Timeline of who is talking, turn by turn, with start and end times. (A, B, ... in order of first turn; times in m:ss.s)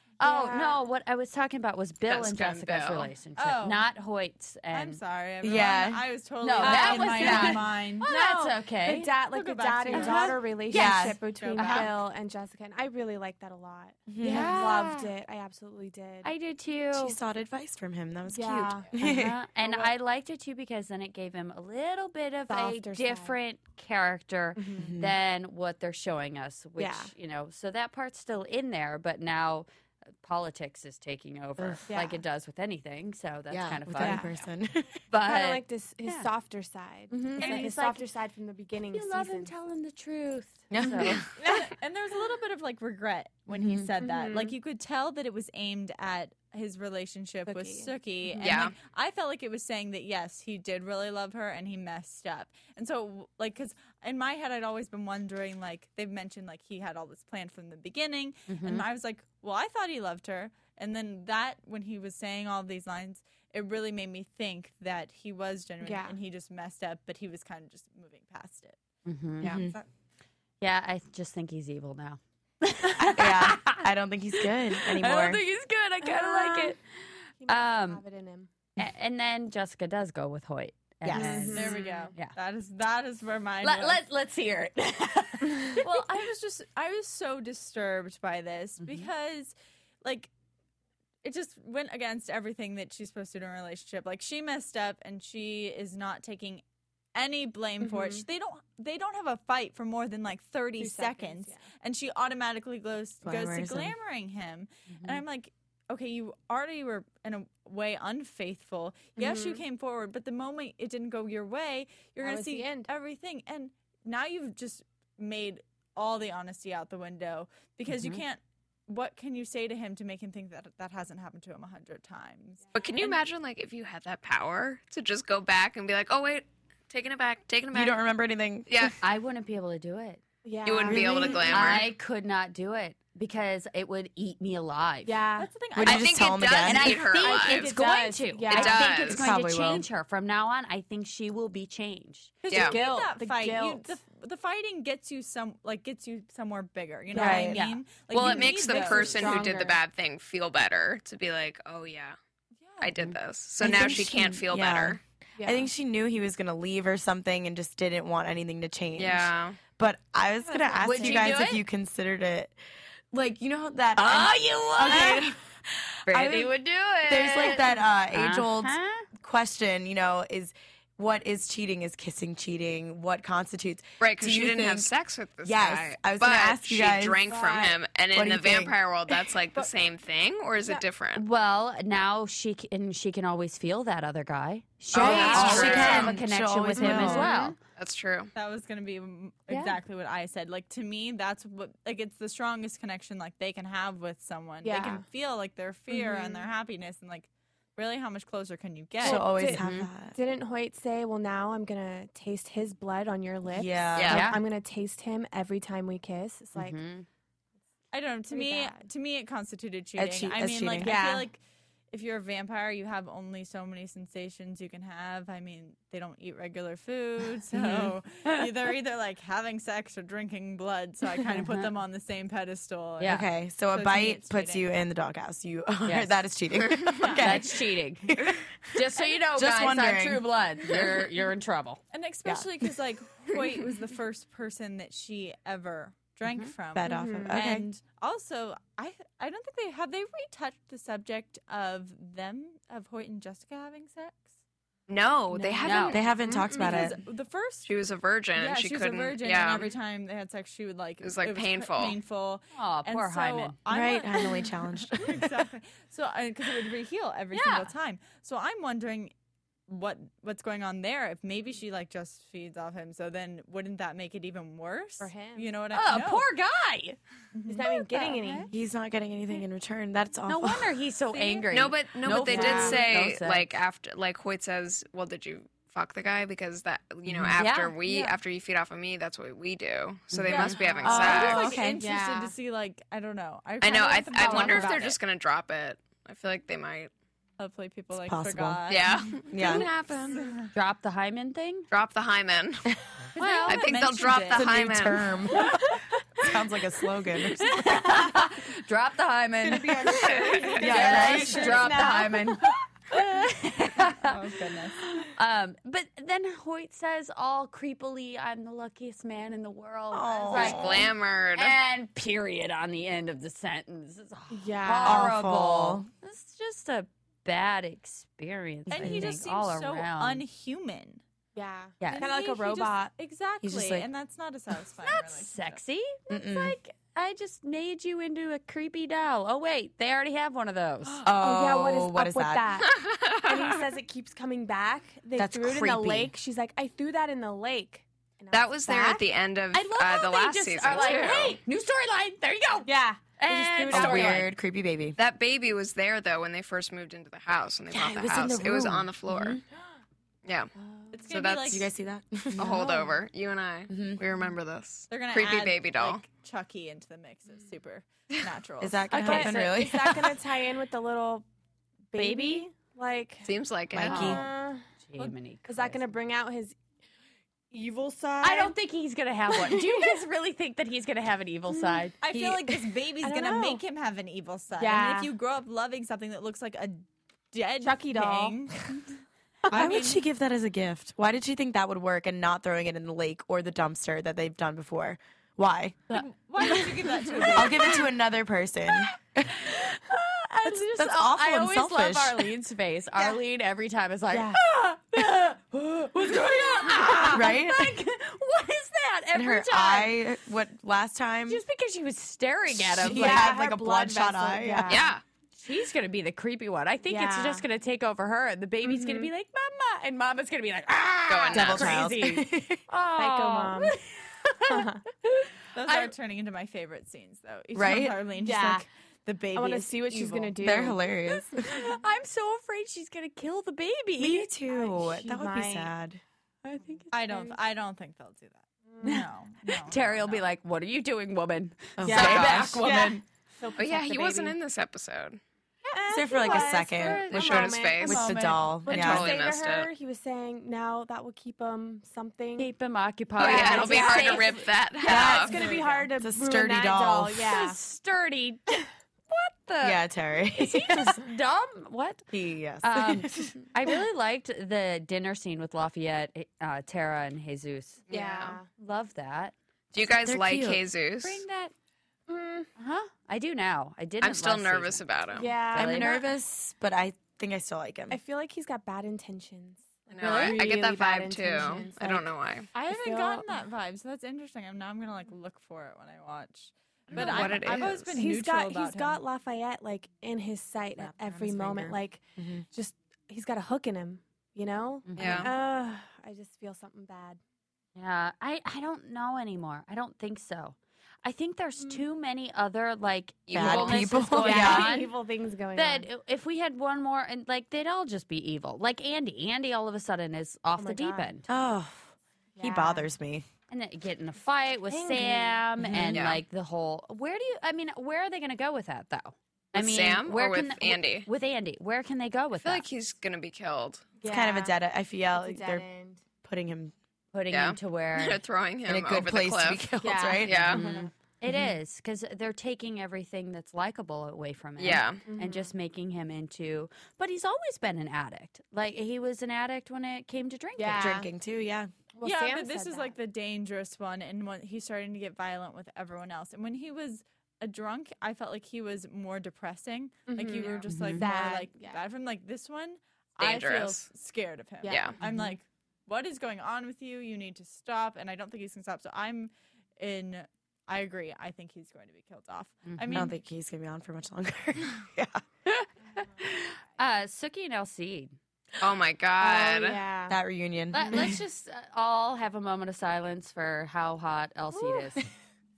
0:00.2-0:05.0 A
0:00.2-0:00.8 B
0:02.1-0:03.1 C
0:03.4-0:03.9 D
0:04.7-0:08.1 D
0:05.4-0:06.1 E
0:06.4-0:09.1 A
0:06.6-0:16.3 B
0:09.3-0:10.6 D
0:09.9-0:10.4 A
0:10.7-0:11.3 E
0:11.2-0:12.0 D
0:11.6-0:11.9 A
0:14.1-0:14.7 E
0:14.2-0:15.1 A
0:16.2-0:17.2 A
0:17.0-0:19.4 E
0:18.3-0:18.9 B
0:19.0-0:29.7 A
0:22.5-0:23.4 B
0:24.6-0:24.9 B
0:24.8-0:25.2 E
0:26.8-0:27.1 B
0:30.2-0:34.3 A
0:31.6-0:31.8 E
0:31.9-0:32.2 B
0:33.5-0:34.9 E
0:34.0-0:34.3 B
0:35.1-0:36.3 A
0:35.2-0:39.5 B
0:37.1-0:38.1 A
0:37.4-0:37.7 D
0:38.9-0:41.2 A
0:40.7-0:41.3 E
0:40.8-0:41.6 B
0:41.4-1:08.8 D
0:43.5-0:43.9 A
0:44.0-0:44.6 B
0:47.5-0:47.9 B
0:48.4-0:48.7 C
0:58.5-0:58.8 A
1:05.8-1:06.2 B
1:09.0-1:09.6 A
1:09.4-1:09.8 E
1:09.4-1:09.8 D
1:10.6-1:16.8 A
1:13.1-1:15.4 E
1:16.0-1:16.8 B
1:17.4-1:18.5 B
1:17.5-1:18.0 A
1:18.8-1:22.3 A
1:21.0-1:21.7 E
1:21.1-1:22.1 B
1:21.5-1:24.0 D
1:23.6-1:25.9 A
1:25.8-1:30.3 D
1:28.8-1:29.1 A
1:31.2-1:36.6 D
1:37.2-2:02.6 D
1:37.8-1:38.2 B
1:40.8-1:41.7 B
1:43.2-1:43.9 E
1:44.9-1:45.2 A
1:49.2-1:49.6 B
1:52.2-1:52.9 B
1:57.9-1:58.2 A
2:02.7-2:08.0 C
2:07.7-2:08.9 E
2:08.7-2:09.0 C
2:09.0-2:10.2 A
2:10.4-2:11.8 B
2:10.6-2:11.9 C
2:10.8-2:11.8 E
2:11.5-2:15.2 A
2:15.1-2:15.5 B
2:15.4-2:16.5 D
2:15.8-2:17.0 E
2:15.8-2:17.7 C
2:16.6-2:22.4 A
2:17.1-2:19.0 B
2:18.5-2:19.3 C
2:19.0-2:19.9 E
2:22.4-2:29.5 D
2:22.5-2:22.8 C
2:22.5-2:24.0 B
2:27.1-2:27.6 B
2:27.1-2:27.6 E
2:27.1-2:27.8 A
2:28.1-2:32.2 C
2:28.2-2:29.8 B
2:32.6-2:32.9 D
2:32.8-2:35.0 C
2:33.6-2:42.6 E
2:35.4-2:35.7 B
2:39.0-2:39.6 C
2:40.4-2:41.4 B
2:40.8-2:41.6 A
2:43.1-2:45.4 E
2:44.0-2:45.4 A
2:46.1-2:49.1 A
2:46.1-2:46.5 E
2:47.1-2:57.3 E
2:54.0-3:01.2 C
2:57.2-2:57.8 B
2:58.1-2:58.8 E
3:01.2-3:07.6 A
3:04.9-3:06.2 C
3:04.9-3:07.3 E
3:05.0-3:06.2 B
3:05.1-3:05.8 D
3:06.8-3:07.6 B
3:07.8-3:08.3 C
3:08.4-3:19.3 D
3:09.5-3:09.8 A
3:14.6-3:15.0 B
3:15.9-3:16.5 B
3:19.0-3:20.2 E
3:19.0-3:26.8 B
3:19.5-3:19.9 A
3:23.5-3:24.3 E
3:24.0-3:24.2 C
3:24.1-3:24.4 A
3:26.6-3:27.1 A
3:27.9-3:31.4 D
3:28.3-3:28.8 B
3:30.0-3:30.9 E
3:30.8-3:31.3 B
3:31.9-3:44.7 D
3:37.6-3:37.9 E
3:41.3-3:41.7 A
3:43.0-3:48.5 E
3:45.8-3:46.2 A
3:47.2-3:51.8 A
3:49.3-3:50.3 E
3:51.9-4:04.4 D
3:52.3-3:52.7 E
3:56.3-3:56.5 A
3:56.8-3:57.7 E
3:56.8-3:57.4 B
4:04.9-4:06.1 C
4:05.4-4:06.0 A
4:05.9-4:07.0 E
4:06.2-4:06.9 B
4:06.4-4:07.7 D
4:07.7-4:09.7 C
4:08.3-4:19.1 D
4:11.0-4:12.0 C
4:12.5-4:13.6 A
4:13.7-4:15.5 E
4:17.3-4:17.7 A
4:19.7-4:26.3 D
4:25.0-4:25.6 B
4:25.7-4:27.0 A
4:27.3-4:28.5 D
4:27.5-4:28.5 B
4:28.5-4:30.8 E
4:30.3-4:33.6 A
4:31.1-4:31.5 D
4:31.5-4:41.6 C
4:32.2-4:32.8 B
4:37.1-4:37.4 E
4:37.3-4:37.8 A
4:37.9-4:38.2 D
4:40.1-4:41.8 A
4:40.3-4:45.0 D
4:40.3-4:42.4 B
4:40.9-4:41.8 E
4:43.6-4:46.9 C
4:44.2-4:44.9 A
4:47.4-4:50.5 D
4:47.9-4:48.7 E
4:48.7-4:50.3 C
4:49.3-4:49.7 E
4:50.5-4:51.7 A
4:51.7-4:52.7 C
4:53.2-4:53.7 A
4:53.2-4:54.6 D
4:53.5-4:55.1 C
4:54.3-4:57.6 E
4:55.3-4:55.8 B
4:57.4-5:04.2 A
4:57.5-4:58.2 B
4:59.5-5:02.6 B
5:00.0-5:00.6 C
5:00.6-5:01.9 E
5:03.9-5:04.8 D
5:04.8-5:20.2 A
5:09.9-5:10.9 E
5:10.3-5:11.6 C
5:14.3-5:15.2 B
5:14.8-5:15.9 E
5:18.7-5:21.0 D
5:18.8-5:19.1 E
5:21.4-5:22.9 B
5:21.8-5:22.1 A
5:21.8-5:25.6 D
5:23.4-5:23.9 E
5:24.8-5:31.0 A
5:26.1-5:26.6 E
5:31.0-5:32.5 E
5:31.2-5:39.0 B
5:32.7-5:33.6 C
5:35.2-5:36.1 E
5:38.3-5:41.4 C
5:39.5-5:44.3 A
5:40.7-5:41.1 B
5:42.6-5:44.2 B
5:43.7-5:45.0 E
5:45.0-5:49.4 C
5:47.7-5:49.4 E
5:50.2-5:50.5 C
5:50.6-5:51.1 B
5:50.9-5:51.7 D
5:51.1-5:51.7 C
5:51.5-5:52.7 E
5:52.4-5:56.0 C
5:52.4-5:53.0 B
5:53.7-5:54.0 E
5:54.9-5:59.4 D
5:58.6-6:00.2 E
5:58.9-5:59.4 A
5:59.0-6:01.3 B
6:01.9-6:04.6 B
6:02.0-6:02.5 A
6:03.2-6:04.2 C
6:03.7-6:04.2 E
6:04.8-6:05.8 A
6:05.5-6:06.6 B
6:07.5-6:08.6 B
6:08.2-6:12.0 A
6:09.3-6:10.0 B
6:11.5-6:11.9 B
6:12.0-6:18.9 D
6:13.0-6:13.6 B
6:14.5-6:15.1 B
6:17.6-6:18.4 B
6:19.5-6:19.8 B
6:19.5-6:20.0 D
6:19.5-6:26.0 E
6:25.9-6:27.8 D
6:27.1-6:27.4 A
6:27.3-6:29.5 E
6:29.4-6:40.0 A
6:30.5-6:32.3 E
6:34.1-6:34.4 B
6:35.7-6:37.8 E
6:39.1-6:41.4 E
6:41.3-6:43.4 A
6:42.5-6:44.8 E
6:42.8-6:44.9 B
6:44.7-6:45.0 C
6:45.4-6:55.9 A
6:46.9-6:47.4 B
6:48.6-6:49.1 B
6:51.1-6:51.8 C
6:51.3-6:52.6 E
6:52.9-6:53.7 B
6:54.5-6:54.8 B
6:55.5-7:00.4 D
6:57.5-6:58.1 E
6:58.1-6:58.7 B
6:59.3-7:00.9 B
7:00.4-7:01.5 E
7:01.4-7:04.3 A
7:04.0-7:06.0 E
7:04.4-7:05.8 B
7:06.5-7:07.4 B
7:06.9-7:10.2 D
7:08.7-7:09.0 B
7:08.8-7:13.0 A
7:11.8-7:12.8 E
7:11.8-7:14.4 B
7:12.0-7:12.7 D
7:13.6-7:15.2 C
7:15.7-7:22.5 B
7:15.9-7:19.2 E
7:16.2-7:17.5 A
7:16.9-7:18.2 C
7:18.7-7:19.7 C
7:22.4-7:24.5 A
7:23.2-7:27.6 B
7:23.2-7:25.4 C
7:24.8-7:25.4 E
7:25.5-7:25.8 D
7:26.0-7:27.3 E
7:27.3-7:32.1 A
7:29.6-7:30.9 E
7:32.1-7:33.4 E
7:32.6-7:37.8 A
7:37.9-7:38.4 C
7:37.9-7:38.5 B
7:38.6-7:39.3 A
7:39.7-7:41.2 C
7:39.8-7:40.6 E
7:41.0-7:41.5 A
7:42.1-7:42.5 B
7:42.6-7:44.8 A
7:44.0-7:45.4 C
7:45.1-7:46.1 B
7:45.5-7:46.0 A
7:45.5-7:48.0 E
7:47.9-7:53.5 B
7:49.9-7:52.5 C
7:52.5-7:59.0 D
7:56.9-7:58.0 C
7:57.0-8:07.2 B
8:00.8-8:02.4 E
8:04.9-8:05.3 A
8:05.0-8:05.3 C
8:07.8-8:14.9 A
8:13.3-8:14.1 C
8:13.3-8:14.7 E
8:14.1-8:15.9 B
8:15.6-8:21.3 A
8:20.6-8:21.2 B
8:21.3-8:23.3 E
8:22.4-8:22.9 B
8:23.5-8:32.6 A
8:24.7-8:25.4 B
8:25.6-8:26.0 E
8:25.9-8:26.2 C
8:29.5-8:31.1 C
8:32.4-8:33.9 C
8:34.0-8:34.6 B
8:34.0-8:35.7 E
8:35.1-8:36.0 B
8:36.2-8:36.7 E
8:37.1-8:38.2 A
8:37.3-8:39.7 C
8:38.7-8:40.6 E
8:39.8-8:40.9 B
8:40.2-8:40.7 C
8:40.3-8:51.0 A
8:44.6-8:45.0 C
8:45.1-8:45.5 B
8:50.6-8:51.1 B
8:50.8-8:51.7 E
8:51.9-8:53.0 B
8:52.0-9:13.1 D
9:00.1-9:01.8 B
9:00.7-9:01.1 A
9:03.2-9:03.9 C
9:04.6-9:05.4 B
9:04.7-9:05.0 C
9:12.7-9:13.1 A
9:12.9-9:15.2 E
9:15.5-9:18.2 A
9:18.6-9:19.8 C
9:19.2-9:20.2 B
9:20.1-9:21.2 E
9:20.7-9:25.1 A
9:20.8-9:21.2 B
9:24.5-9:25.0 B